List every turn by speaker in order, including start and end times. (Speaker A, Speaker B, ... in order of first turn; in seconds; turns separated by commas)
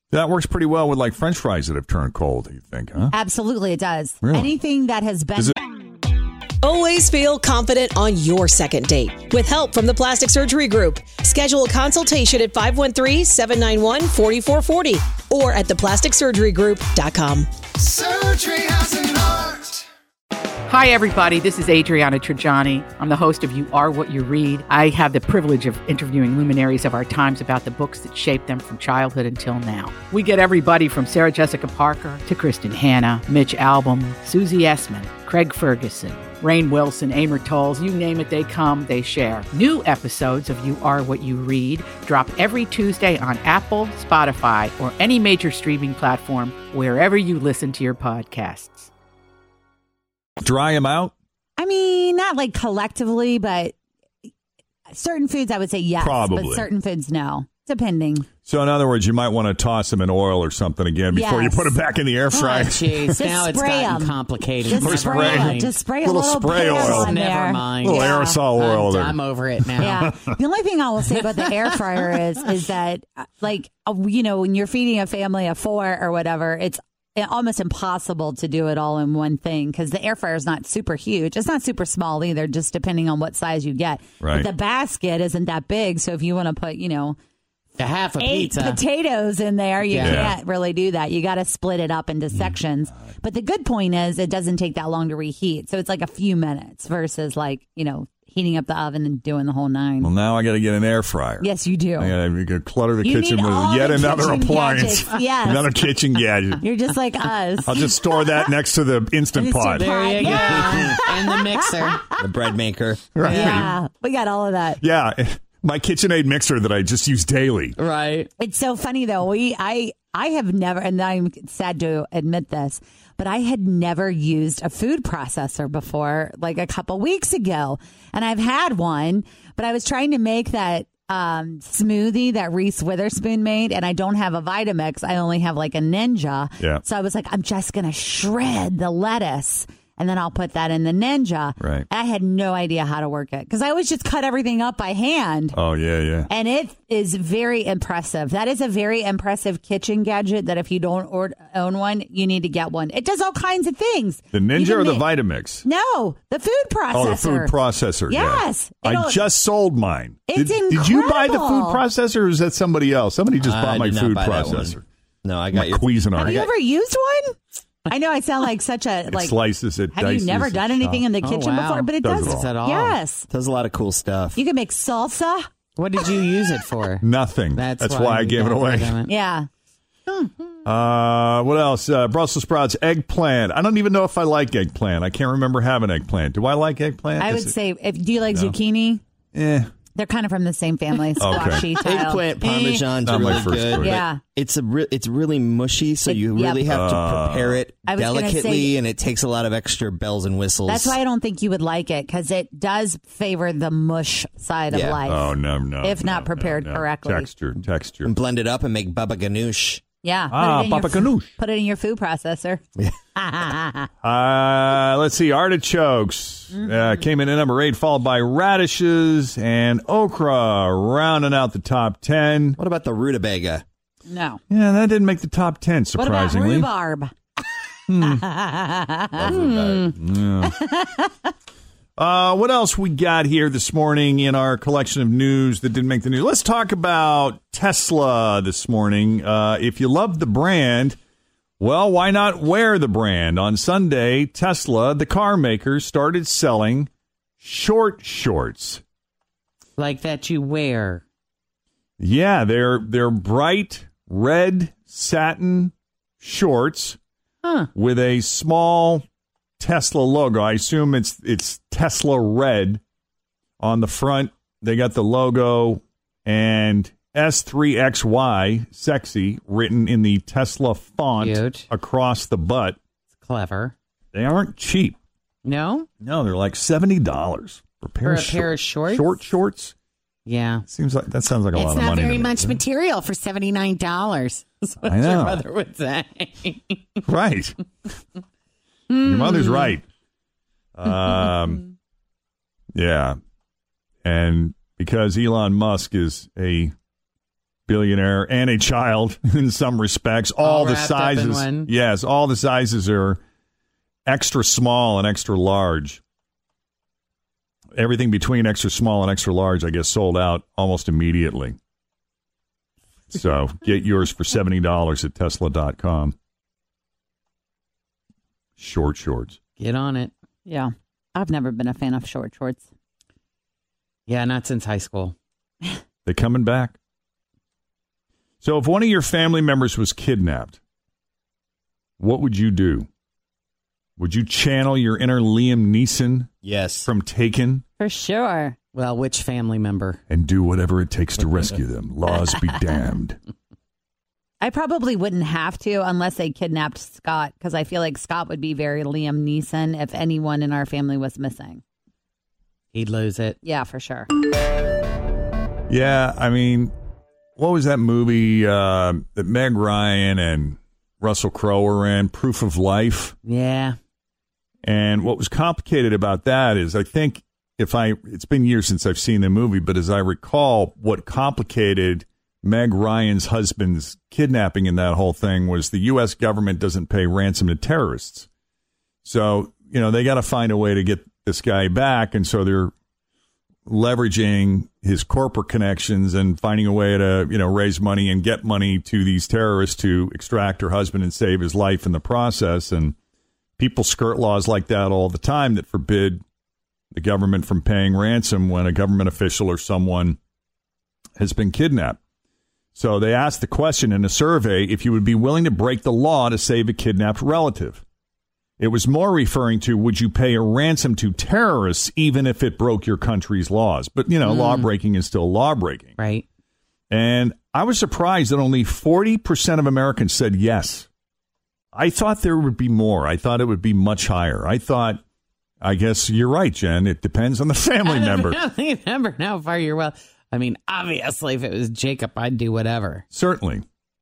Speaker A: 0.1-3.1, Speaker B: 3.1-5.5, Speaker A: 4.2-4.5, Speaker C: 6.6-17.5, Speaker D: 18.0-19.8, Speaker D: 20.7-48.9, Speaker A: 50.4-51.1, Speaker B: 51.6-53.8, Speaker B: 54.9-58.3, Speaker A: 56.0-56.7, Speaker A: 58.5-63.2, Speaker B: 61.1-61.8, Speaker E: 62.3-65.8, Speaker B: 63.1-68.3, Speaker A: 64.7-67.1, Speaker E: 66.8-70.0, Speaker A: 67.8-70.3, Speaker B: 69.8-87.2, Speaker A: 84.2-84.5, Speaker E: 87.8-88.8, Speaker B: 88.2-100.1, Speaker E: 89.9-90.3, Speaker A: 90.0-90.4, Speaker A: 100.0-106.6, Speaker B: 101.4-102.1, Speaker B: 103.0-105.7, Speaker B: 106.6-108.3, Speaker A: 107.7-110.7, Speaker B: 109.3-112.2, Speaker E: 109.8-112.1, Speaker F: 112.2-113.2, Speaker A: 113.2-113.8, Speaker E: 113.2-113.7, Speaker B: 113.3-114.8, Speaker A: 114.8-117.8, Speaker E: 117.8-118.3, Speaker B: 118.4-145.6, Speaker A: 141.6-141.9, Speaker A: 145.5-146.3, Speaker B: 146.3-155.1, Speaker A: 154.3-155.7, Speaker B: 155.6-157.6, Speaker A: 156.9-164.8, Speaker B: 158.1-159.2, Speaker B: 160.3-161.8, Speaker F: 163.4-166.5, Speaker A: 165.5-166.4, Speaker B: 166.2-167.4, Speaker B: 167.9-169.4, Speaker A: 169.1-171.1, Speaker B: 169.9-173.3, Speaker E: 171.2-173.0, Speaker A: 172.0-172.6, Speaker F: 173.3-174.4, Speaker B: 174.4-175.5, Speaker E: 175.8-179.1, Speaker A: 177.0-179.0, Speaker B: 179.1-179.5, Speaker A: 180.7-187.6, Speaker B: 187.2-189.0, Speaker A: 188.3-188.6, Speaker A: 189.3-189.7, Speaker B: 189.9-192.2, Speaker A: 191.2-191.7, Speaker F: 191.7-201.0, Speaker E: 192.4-192.9, Speaker A: 193.0-194.0, Speaker B: 193.7-194.2, Speaker B: 196.1-196.7, Speaker A: 196.7-197.6, Speaker B: 197.9-198.8, Speaker B: 200.7-207.3, Speaker F: 204.7-205.0, Speaker A: 205.1-208.1, Speaker F: 208.1-209.8, Speaker B: 210.0-212.6, Speaker A: 210.3-211.3, Speaker B: 213.2-213.9, Speaker A: 214.0-222.6, Speaker F: 222.6-223.6, Speaker B: 224.1-224.4, Speaker A: 224.5-226.7, Speaker B: 225.9-227.1, Speaker A: 227.9-228.2, Speaker B: 228.0-229.4, Speaker F: 229.2-229.9, Speaker E: 229.3-229.9, Speaker A: 229.9-230.6, Speaker B: 230.6-231.1, Speaker A: 232.0-241.0, Speaker A: 241.6-248.8, Speaker E: 249.8-251.0, Speaker A: 252.0-257.0, Speaker E: 257.4-257.7, Speaker A: 257.8-259.0, Speaker A: 259.6-262.8, Speaker A: 263.6-272.8, Speaker E: 271.2-271.7, Speaker E: 273.1-273.7, Speaker A: 274.1-275.0, Speaker E: 275.4-275.9, Speaker A: 276.0-279.7, Speaker E: 278.1-279.2, Speaker E: 280.3-280.6, Speaker A: 280.7-282.6, Speaker E: 281.5-287.0, Speaker A: 284.8-285.4, Speaker A: 287.1-287.6, Speaker E: 288.9-289.8, Speaker A: 289.0-289.8, Speaker A: 290.8-291.7, Speaker A: 292.7-293.2, Speaker A: 294.1-296.7, Speaker A: 297.7-303.2, Speaker E: 300.4-301.7, Speaker A: 304.1-306.0, Speaker A: 307.8-311.6, Speaker A: 313.1-316.1, Speaker A: 318.6-319.4, Speaker E: 319.6-320.1, Speaker B: 320.4-322.6, Speaker E: 324.1-325.1, Speaker A: 326.1-326.8, Speaker A: 328.4-330.6, Speaker A: 332.0-332.9, Speaker A: 334.0-336.3, Speaker F: 336.4-336.9, Speaker A: 336.9-337.6, Speaker B: 337.8-338.6, Speaker E: 338.7-340.0, Speaker A: 340.1-343.2, Speaker B: 344.4-351.6, Speaker E: 352.7-353.4, Speaker B: 353.4-354.1, Speaker A: 355.7-356.7, Speaker A: 357.4-363.1, Speaker E: 363.3-363.8, Speaker A: 364.6-378.3, Speaker A: 379.0-382.7, Speaker A: 383.7-392.9, Speaker A: 393.6-396.2, Speaker A: 396.9-400.2, Speaker A: 401.2-402.0, Speaker A: 402.8-407.8, Speaker A: 408.6-415.9, Speaker E: 414.2-414.7, Speaker E: 416.0-416.2, Speaker A: 416.9-420.9, Speaker A: 421.7-425.0, Speaker A: 425.6-428.4, Speaker E: 427.8-433.1, Speaker A: 433.1-433.6